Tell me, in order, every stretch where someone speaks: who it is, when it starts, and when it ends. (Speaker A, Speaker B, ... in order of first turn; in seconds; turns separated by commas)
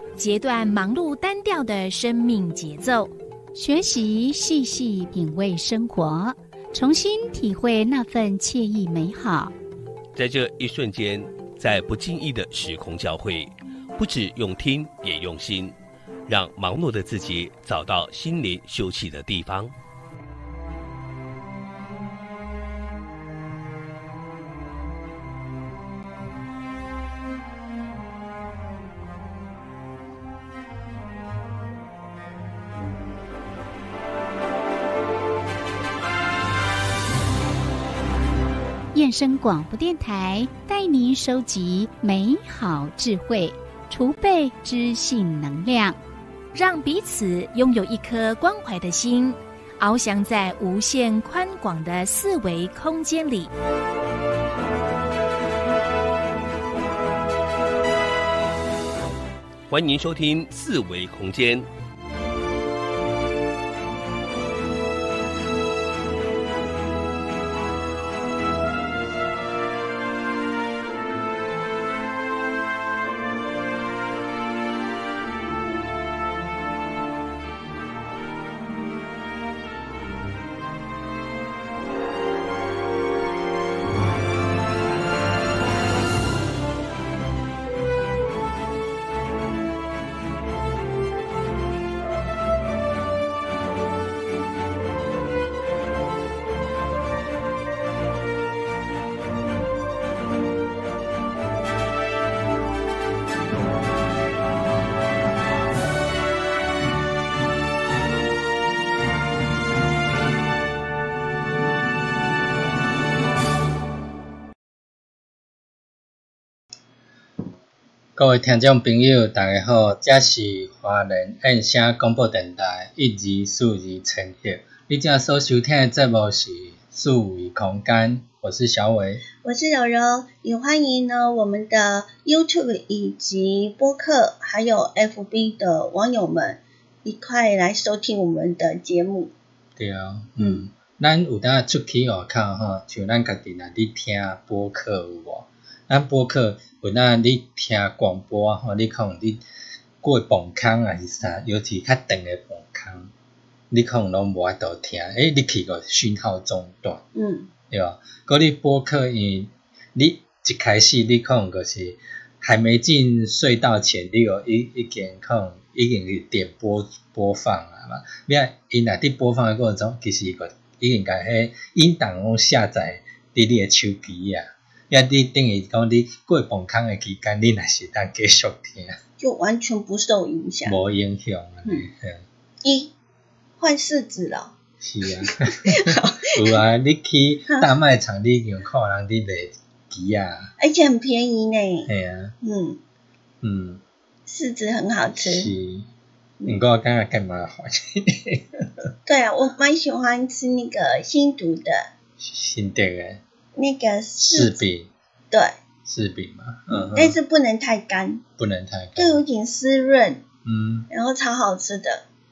Speaker A: 0.2-3.1, Speaker B: 3.5-9.5, Speaker C: 10.1-15.7, Speaker C: 16.3-19.7, Speaker B: 38.9-46.0, Speaker A: 46.5-53.5, Speaker C: 59.7-61.7, Speaker D: 118.2-129.2, Speaker E: 129.4-139.3, Speaker D: 139.8-149.4, Speaker D: 150.0-153.1, Speaker D: 153.7-157.0, Speaker E: 157.1-157.5, Speaker D: 157.7-179.0, Speaker E: 179.2-180.8, Speaker D: 180.6-182.2, Speaker E: 182.6-182.9, Speaker E: 183.6-184.5, Speaker D: 184.8-190.5, Speaker E: 185.2-186.3, Speaker E: 190.6-191.9, Speaker D: 191.9-192.3, Speaker E: 192.4-192.8, Speaker D: 193.4-193.8, Speaker E: 194.3-195.5, Speaker D: 195.2-195.9, Speaker D: 196.4-198.6, Speaker E: 199.1-201.9, Speaker D: 202.2-203.2, Speaker E: 203.6-204.6, Speaker D: 204.2-204.9, Speaker D: 205.8-207.2, Speaker E: 206.7-208.2, Speaker D: 208.4-209.2, Speaker E: 208.9-210.2, Speaker D: 210.4-210.9, Speaker E: 210.9-212.0